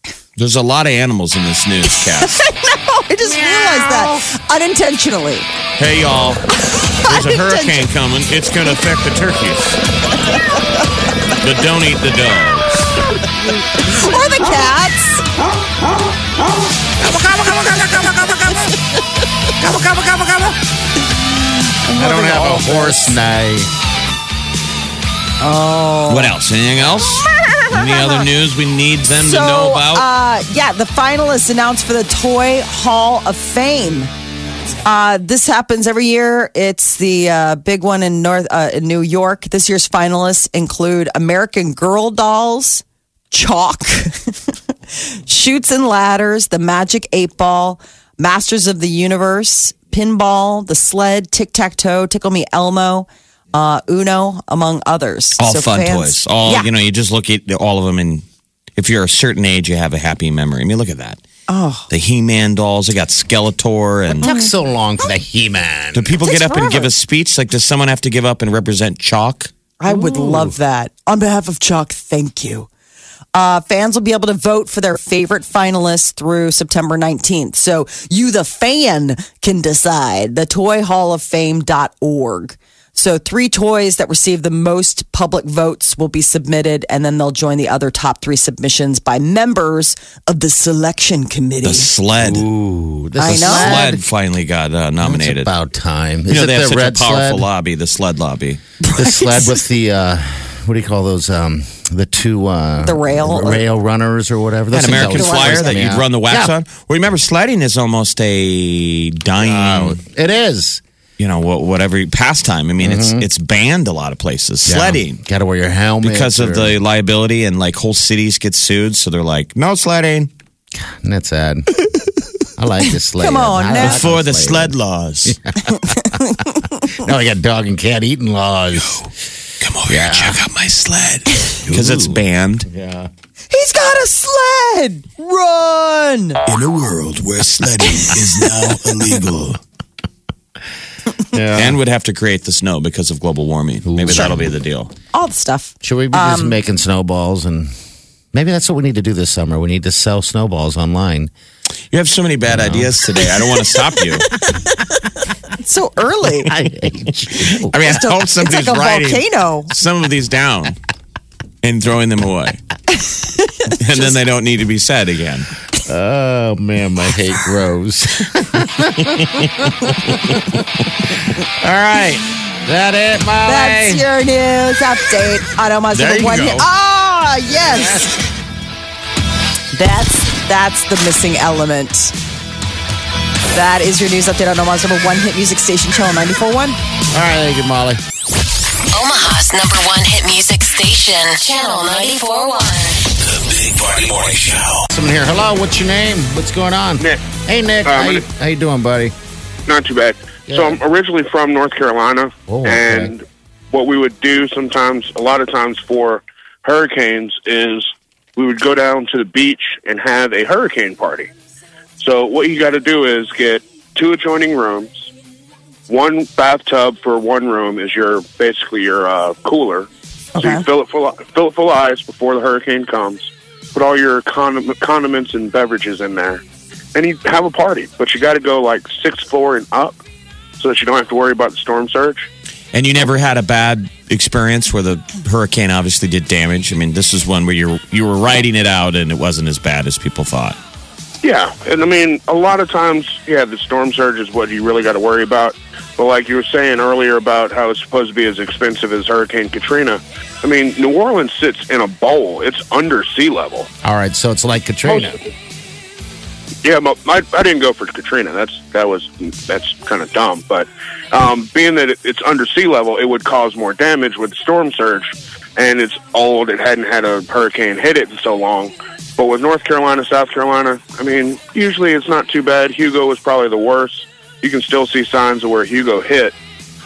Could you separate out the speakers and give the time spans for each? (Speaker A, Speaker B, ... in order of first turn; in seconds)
Speaker A: 0.4-2.4, 5.8-9.8, 11.4-12.8, 26.1-30.1, 55.4-58.2, 58.8-61.2, 61.9-64.3, 65.9-69.5, 91.6-92.5, 93.2-95.5, 96.3-98.6, 104.7-110.0, 111.2-115.2, 116.0-120.3, 123.8-125.4, 129.6-132.7, 137.1-139.4, 141.5-144.9, 151.9-154.3, 157.4-160.8, 161.6-162.6, 163.8-165.5, 175.9-176.7, 232.7-240.6
Speaker B: 2.2-5.5, 6.6-7.8, 13.8-15.2, 21.9-23.2, 25.4-26.4, 27.5-28.2, 29.2-34.1, 34.9-44.3, 45.0-56.7, 61.5-61.9, 64.2-64.5, 66.2-66.9, 69.8-72.7, 73.3-91.9, 93.2-93.9, 98.8-99.6, 102.8-103.6, 105.1-105.8, 123.2-124.0, 125.8-126.7, 133.5-136.4, 145.1-146.6, 154.4-154.8, 155.6-156.5, 157.8-159.7, 162.9-164.1, 173.4-178.1, 179.7-182.2, 183.5-186.8, 220.3-220.7
Speaker C: 3.3-4.2, 17.0-18.5, 19.7-20.5, 21.9-23.7, 64.2-66.2, 69.9-70.5, 92.2-94.0, 95.0-97.5, 98.9-106.5, 109.4-110.8, 112.8-113.2, 114.7-116.8, 120.7-121.8, 122.6-124.8, 125.3-126.2, 126.9-129.1, 129.9-130.4, 131.7-133.1, 141.3-141.8, 143.9-144.5, 145.8-147.7, 148.3-151.3, 152.5-152.9, 156.4-157.7, 165.8-170.7, 171.4-174.0, 187.1-188.0, 194.9-199.1, 200.5-200.8, 202.5-203.1, 253.8-255.2
Speaker D: 136.5-139.5, 193.1-194.9
Speaker E: 188.9-193.0
Speaker F: 197.8-198.2, 199.7-211.3, 212.0-215.1, 215.9-226.4, 226.9-230.0, 230.6-232.3, 241.2-253.7, 254.9-255.2, 256.6-276.4